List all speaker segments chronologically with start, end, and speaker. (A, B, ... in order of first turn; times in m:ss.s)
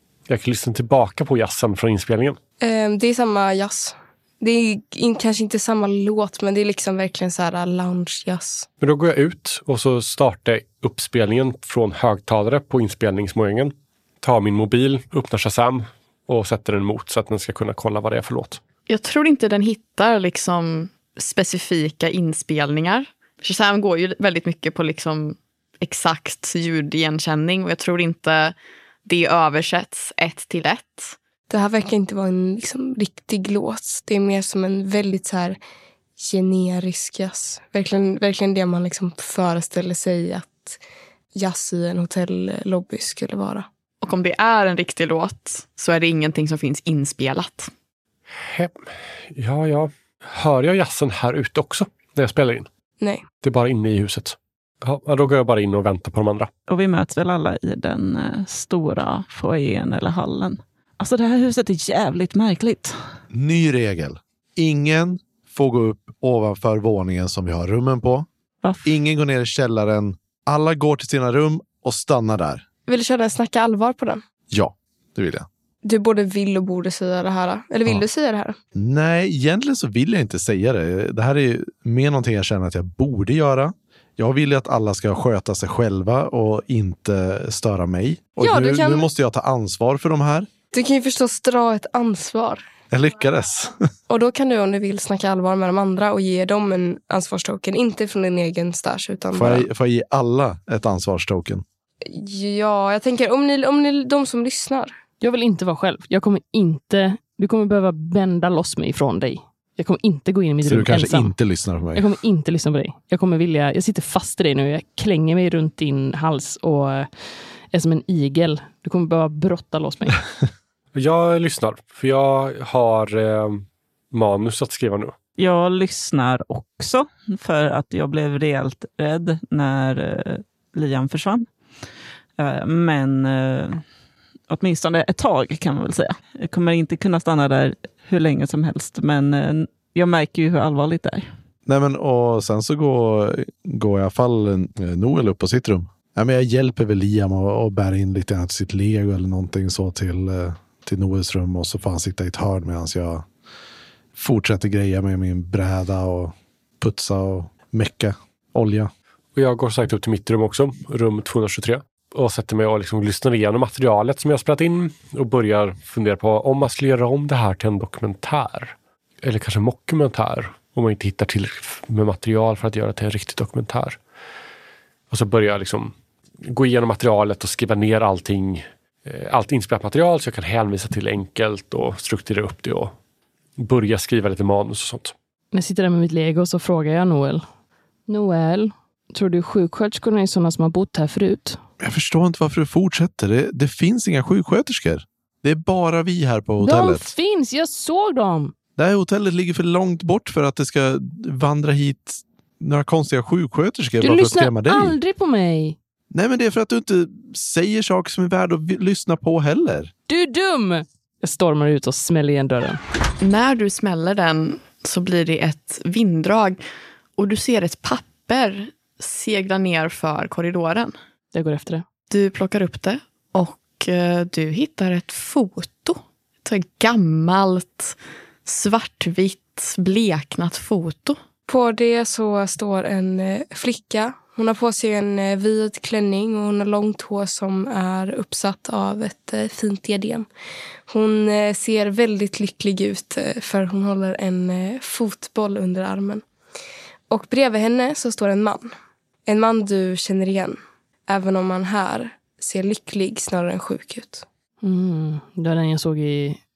0:00.3-0:02.4 A
0:02.6-0:08.7 B
0:08.8-0:18.6 A
0:18.9-0:31.2 C
0:31.5-0:35.6 B
0:36.2-0:40.8 B
0:41.3-0:43.7 B
0:44.0-0:47.7 C
0:48.4-0:48.8 A
0:49.3-0:52.7 A
0:53.0-0:53.2 B
0:53.4-0:56.5 A
0:56.7-1:03.0 D
1:03.3-1:08.3 E
1:08.6-1:08.9 D
1:08.8-1:12.6 E
1:12.9-1:14.2 B
1:14.5-1:15.5 E
1:15.8-1:18.6 B
1:18.8-1:30.5 E
1:28.4-1:29.1 B
1:30.7-1:32.6 B
1:32.9-1:33.8 E
1:34.1-1:39.7 B
1:39.3-1:41.6 E
1:42.0-1:45.0 B
1:45.2-1:51.4 F
1:50.6-1:52.1 E
1:52.0-1:57.1 F
1:57.7-2:00.2 F
2:01.0-2:05.2 A
2:05.4-2:11.5 D
2:12.4-2:13.8 D
2:14.5-2:21.3 D
2:21.7-2:33.2 E
2:34.2-2:38.9 E
2:39.4-2:54.0 A
2:55.1-3:02.9 A
3:03.6-3:05.1 A
3:05.5-3:07.4 F
3:08.1-3:11.6 F
3:11.8-3:17.1 E
3:16.6-3:18.5 F
3:18.8-3:25.0 E
3:24.0-3:25.8 F
3:26.1-3:29.9 E
3:30.1-3:32.8 F
3:33.2-3:36.6 C
3:37.2-3:41.0 C
3:41.3-3:41.8 F
3:42.1-3:51.2 C
3:51.5-4:00.3 B
4:00.9-4:06.2 B
4:07.1-4:08.7 B
4:09.3-4:14.2 B
4:14.6-4:16.4 F